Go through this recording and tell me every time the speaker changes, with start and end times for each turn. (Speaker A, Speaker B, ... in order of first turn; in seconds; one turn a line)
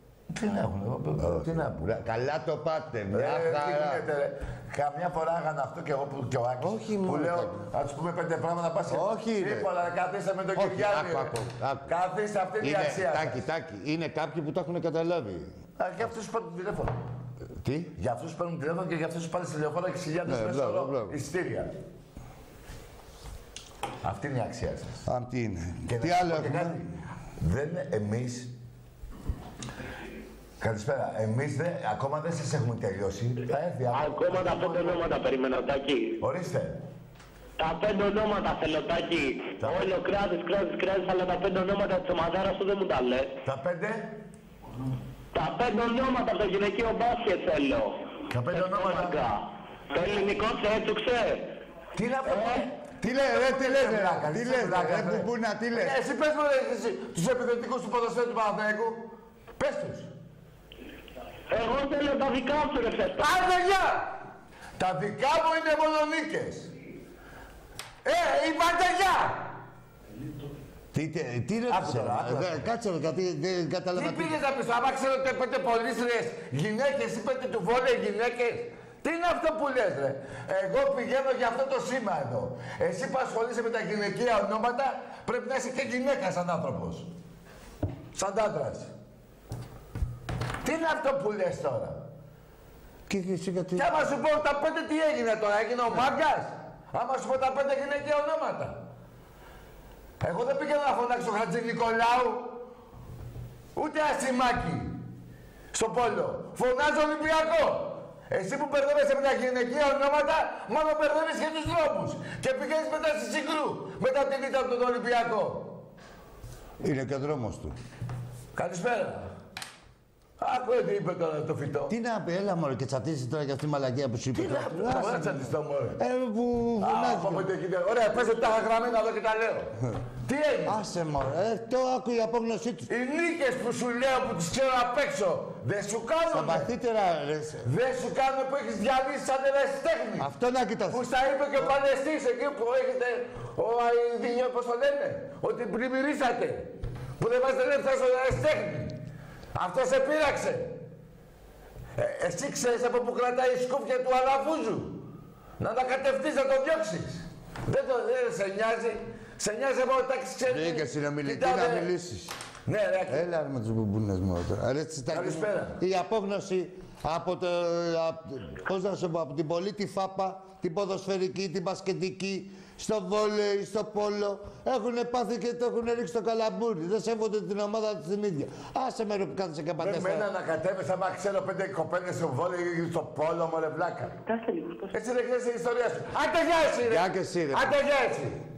Speaker A: 0.3-1.8
Speaker B: 1.2-4.0
Speaker A: 3.1-11.3
Speaker B: 6.6-7.6
Speaker B: 8.9-9.7
Speaker B: 10.6-11.9
Speaker A: 11.9-13.5
Speaker B: 12.6-15.5
Speaker A: 15.8-16.9
Speaker B: 17.6-17.9
Speaker A: 18.0-21.7
Speaker B: 20.3-21.2
Speaker A: 24.0-25.1
Speaker B: 25.1-26.8
Speaker A: 25.9-28.5
Speaker A: 30.6-35.1
Speaker C: 33.9-36.2
Speaker A: 36.2-36.8
Speaker C: 37.6-43.3
Speaker A: 39.6-40.0
Speaker A: 43.5-44.1
Speaker C: 45.3-51.5
Speaker A: 48.3-49.2
Speaker A: 52.0-60.1
Speaker C: 52.2-52.6
Speaker B: 53.0-56.0
Speaker C: 61.5-63.8
Speaker A: 64.8-66.7
Speaker A: 68.0-69.5
Speaker B: 70.9-74.4
Speaker A: 71.7-72.7
Speaker A: 74.0-87.1
Speaker A: 88.1-88.9
Speaker A: 90.6-92.0
Speaker B: 93.1-93.9
Speaker A: 93.8-98.8
Speaker A: 100.2-102.6
Speaker A: 103.8-105.0
Speaker A: 105.7-115.8
Speaker B: 116.8-117.8
Speaker A: 118.5-119.3
Speaker A: 120.4-121.9
Speaker B: 121.9-127.5
Speaker A: 124.3-126.0
Speaker A: 126.8-130.8
Speaker B: 130.7-132.9
Speaker A: 132.9-136.7
Speaker B: 136.3-137.7
Speaker A: 137.6-140.3
Speaker B: 140.2-141.0
Speaker A: 140.9-149.0
Speaker A: 149.5-150.8
Speaker A: 152.0-155.0
Speaker A: 155.6-161.9
Speaker B: 160.5-162.3
Speaker A: 162.7-163.3
Speaker B: 163.1-180.3
Speaker A: 165.1-165.8
Speaker A: 179.8-184.2
Speaker C: 184.3-184.9
Speaker A: 184.9-188.4
Speaker B: 186.8-187.8